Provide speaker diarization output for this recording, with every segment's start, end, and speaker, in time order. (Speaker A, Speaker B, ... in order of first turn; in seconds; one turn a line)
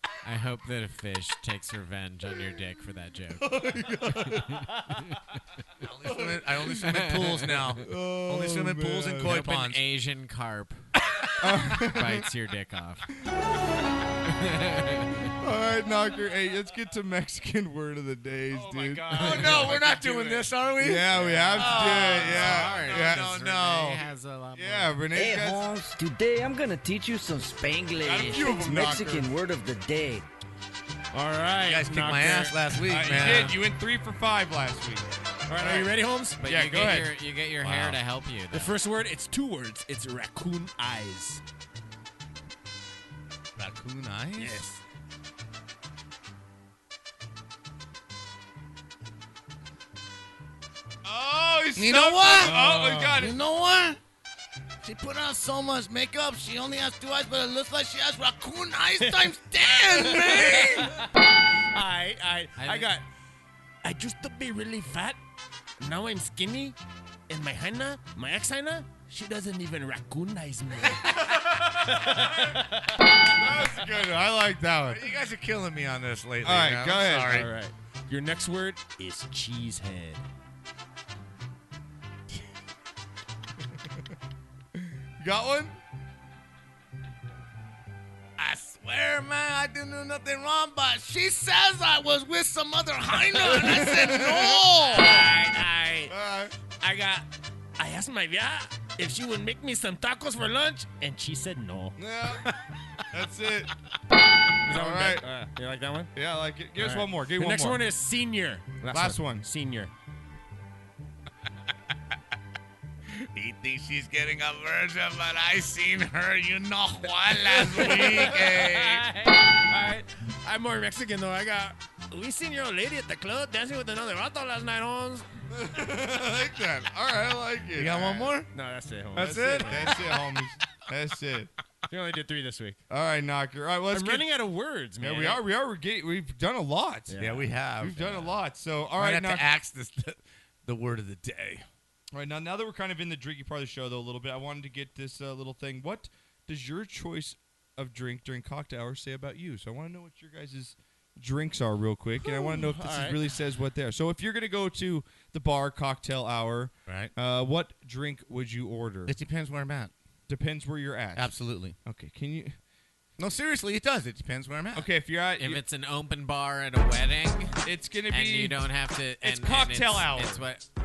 Speaker A: 0.2-3.6
Speaker B: 3.4-4.7
Speaker A: 4.2-5.1
Speaker C: 5.8-9.8
Speaker B: 6.1-6.6
Speaker A: 6.9-7.5
Speaker B: 7.8-9.3
Speaker A: 9.2-10.9
Speaker B: 11.4-12.3
Speaker A: 11.7-13.1
Speaker A: 14.2-15.3
Speaker B: 15.4-19.7
Speaker D: 18.5-20.6
Speaker C: 19.1-24.0
Speaker B: 20.8-23.3
Speaker D: 21.1-21.9
Speaker A: 21.6-25.0
Speaker B: 24.5-25.8
Speaker E: 25.1-30.2
Speaker B: 28.0-29.3
Speaker D: 31.1-32.8
Speaker C: 31.5-33.6
Speaker B: 32.9-37.1
Speaker D: 35.5-36.9
Speaker A: 36.4-38.7
Speaker C: 37.6-38.0
Speaker D: 38.5-41.4
Speaker C: 43.5-44.6
Speaker D: 44.4-44.8
Speaker B: 51.0-53.3
Speaker C: 51.8-54.0
Speaker D: 52.4-53.2
Speaker C: 54.8-60.9
Speaker D: 59.0-61.1
Speaker D: 61.7-63.0
Speaker A: 62.6-62.9
Speaker D: 63.8-65.2
Speaker D: 65.8-66.8
Speaker D: 67.3-73.0
Speaker B: 72.1-72.4
Speaker B: 73.3-75.1
Speaker C: 74.9-77.5
Speaker B: 76.4-77.5
Speaker D: 77.3-80.2
Speaker B: 84.8-85.7
Speaker C: 88.4-95.3
Speaker D: 93.4-93.8
Speaker B: 93.5-94.6
Speaker D: 94.8-96.1
Speaker B: 96.1-96.5
Speaker D: 96.7-102.5
Speaker B: 102.0-102.4
Speaker B: 103.1-103.7
Speaker D: 104.7-106.1
Speaker B: 104.7-105.3
Speaker B: 106.1-107.8
Speaker D: 106.8-109.9
Speaker B: 108.9-109.5
Speaker C: 113.2-119.0
Speaker D: 117.4-125.3
Speaker B: 125.5-128.3
Speaker C: 127.8-128.5
Speaker D: 128.5-130.2
Speaker B: 129.1-131.5
Speaker D: 131.9-132.8
Speaker B: 132.9-134.3
Speaker D: 133.9-135.4
Speaker B: 135.0-137.2
Speaker D: 137.1-137.5
Speaker C: 137.2-138.3
Speaker B: 137.8-139.5
Speaker C: 138.9-141.7
Speaker B: 142.1-159.1
Speaker D: 152.2-153.2
Speaker C: 156.9-157.1
Speaker C: 159.1-159.9
Speaker B: 160.3-161.3
Speaker C: 161.1-161.8
Speaker B: 161.8-162.6
Speaker C: 163.2-164.9
Speaker B: 164.7-165.6
Speaker A: 165.4-170.6
Speaker B: 167.6-168.6
Speaker B: 169.2-170.4